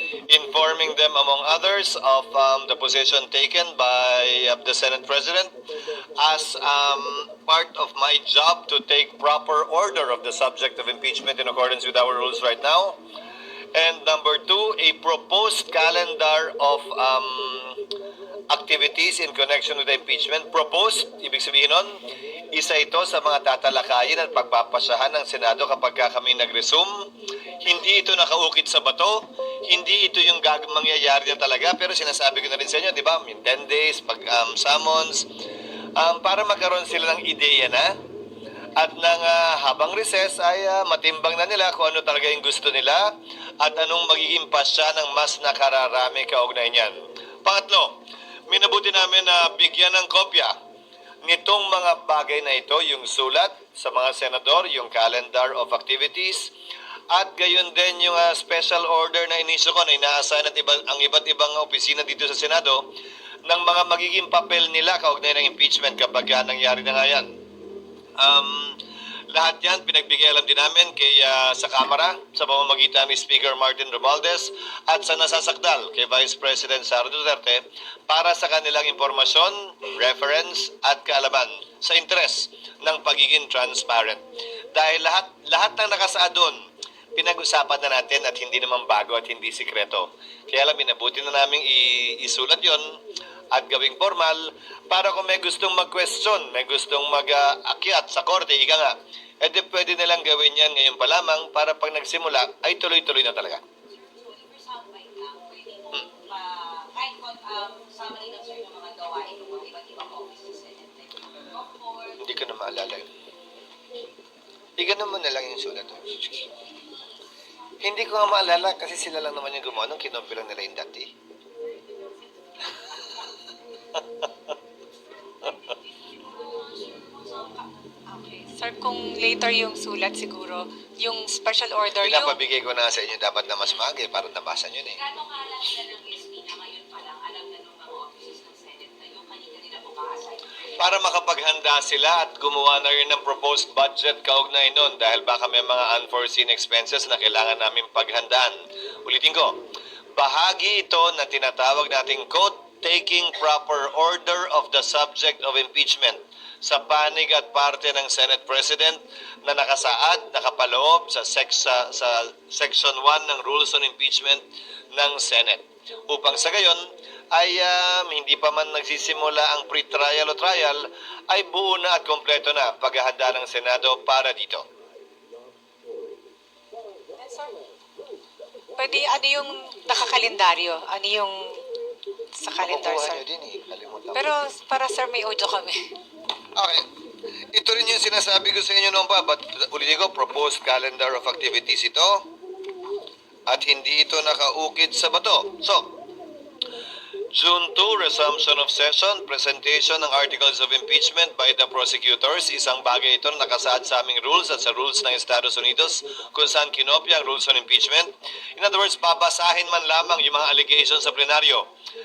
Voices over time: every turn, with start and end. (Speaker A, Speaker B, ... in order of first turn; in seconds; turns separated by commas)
Speaker A: 0.3-5.5, Speaker A: 6.2-13.0, Speaker A: 13.7-17.8, Speaker A: 18.5-22.0, Speaker A: 22.5-27.1, Speaker A: 27.6-35.3, Speaker A: 36.0-37.9, Speaker A: 38.8-43.1, Speaker A: 43.6-50.5, Speaker A: 51.2-56.5, Speaker A: 57.1-62.9, Speaker A: 63.5-67.3, Speaker A: 68.2-68.8, Speaker A: 69.3-86.6, Speaker A: 87.2-93.0, Speaker A: 93.5-103.6, Speaker B: 103.9-112.2, Speaker A: 112.2-113.1, Speaker A: 114.8-116.5, Speaker A: 117.8-121.1, Speaker B: 121.9-123.3, Speaker B: 125.3-128.4, Speaker C: 128.3-132.4, Speaker A: 132.0-135.0, Speaker B: 134.9-140.4, Speaker A: 140.8-149.6, Speaker A: 150.2-174.7, Speaker C: 177.2-177.6, Speaker C: 178.8-181.6, Speaker C: 182.4-183.2, Speaker A: 182.6-184.3, Speaker C: 184.1-185.8, Speaker A: 186.6-186.8, Speaker A: 187.5-192.2, Speaker A: 193.5-195.9, Speaker A: 197.3-211.7